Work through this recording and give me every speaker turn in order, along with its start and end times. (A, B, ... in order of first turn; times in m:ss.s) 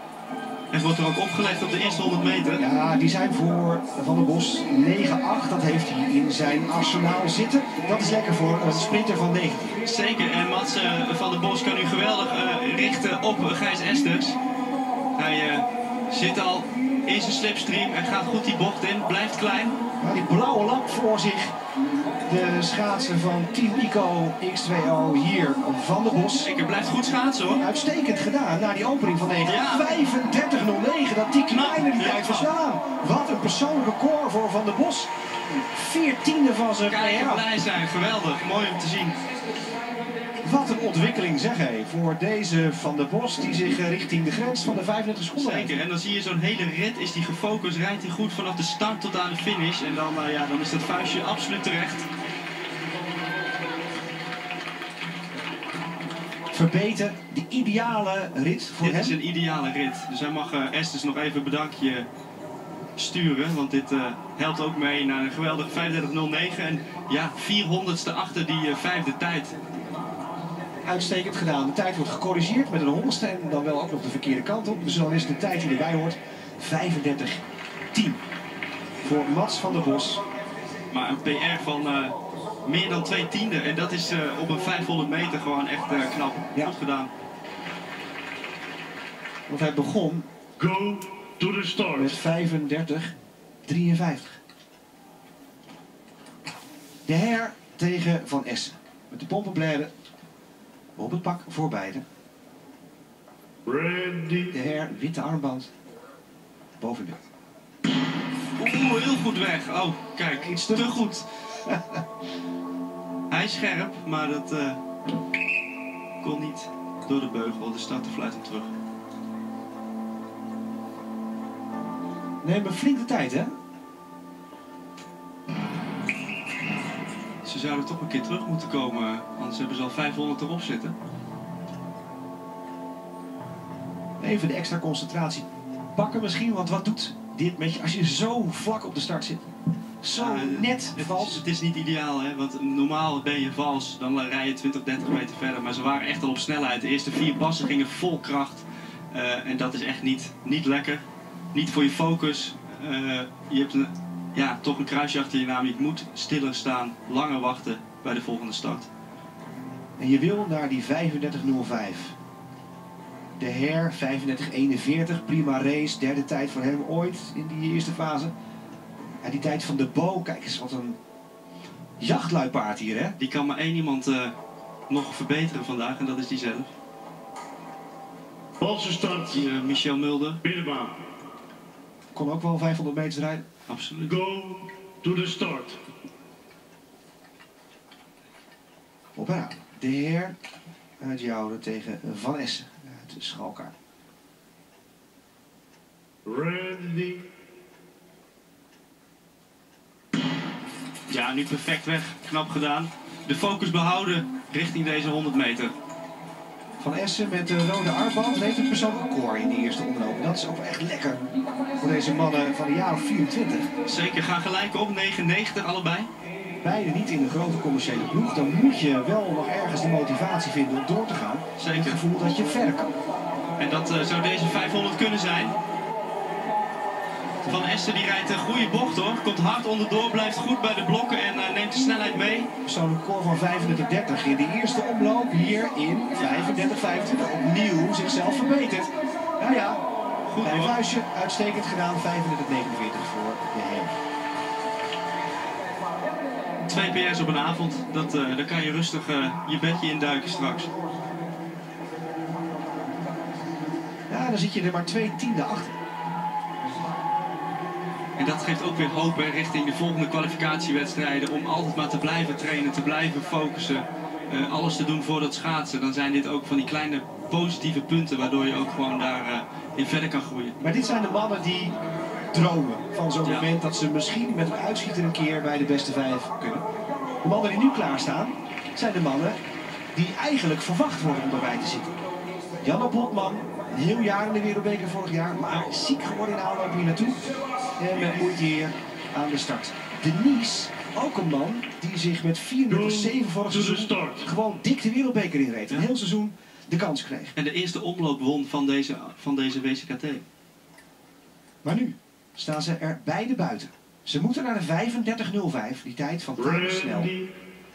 0:00.7-0:02.6 A
0:02.6-0:09.8 B
0:09.8-0:14.4 A
0:15.2-0:19.8 A
0:20.0-0:21.5 B
0:22.3-0:26.5 B
0:26.4-0:27.6 A
0:27.6-0:35.1 B
0:29.4-0:30.0 A
0:31.5-0:32.5 A
0:35.6-0:37.4 B
0:36.9-0:39.2 A
0:40.4-0:45.8 B
0:45.3-0:52.1 A
0:56.5-0:59.2 B
0:58.8-1:02.1 A
1:03.0-1:09.5 A
1:10.8-1:18.2 B
1:19.0-1:20.2 B
1:20.9-1:27.1 A
1:29.5-1:30.3 B
1:30.6-1:32.2 C
1:31.9-1:34.4 B
1:37.0-1:39.9 B
1:41.0-1:42.0 B
1:43.6-1:44.5 C
1:44.5-1:45.7 B
1:46.8-1:47.2 B
1:48.6-1:51.2 A
1:50.4-1:51.0 B
1:51.6-1:52.0 B
1:53.3-1:54.8 A
1:56.2-1:58.7 A
2:02.4-2:03.5 B
2:07.4-2:10.9 A
2:14.2-2:19.5 B
2:20.0-2:21.4 B
2:20.2-2:38.9 A
2:40.0-2:42.1 B
2:43.4-2:48.3 B
2:49.2-2:51.0 B
2:52.0-2:53.2 B
2:53.2-2:54.3 A
2:54.9-2:56.7 A
2:58.6-2:59.5 C
2:59.2-3:00.4 A
3:00.4-3:01.0 C
3:02.1-3:03.4 B
3:03.7-3:04.1 A
3:04.0-3:05.8 C
3:09.2-3:10.3 B
3:11.0-3:13.7 B
3:16.2-3:17.3 C
3:21.1-3:25.7 A
3:26.8-3:31.2 B
3:31.8-3:33.7 B
3:33.8-3:36.1 A
3:36.6-3:42.9 B
3:41.6-3:42.0 A
3:43.6-3:45.5 A
3:47.4-3:52.5 A
3:52.6-3:59.8 B
4:00.3-4:00.8 A
4:00.4-4:04.0 B
4:06.6-4:10.7 A
4:14.1-4:15.7 B
4:18.2-4:30.6 A
4:30.6-4:31.8 B
4:32.3-4:36.6 B
4:37.2-4:39.4 B
4:39.9-4:41.9 B
4:42.6-4:57.3 B
4:52.7-4:54.3 C
4:57.4-5:00.2 A
5:01.6-5:07.1 B
5:06.4-5:07.3 C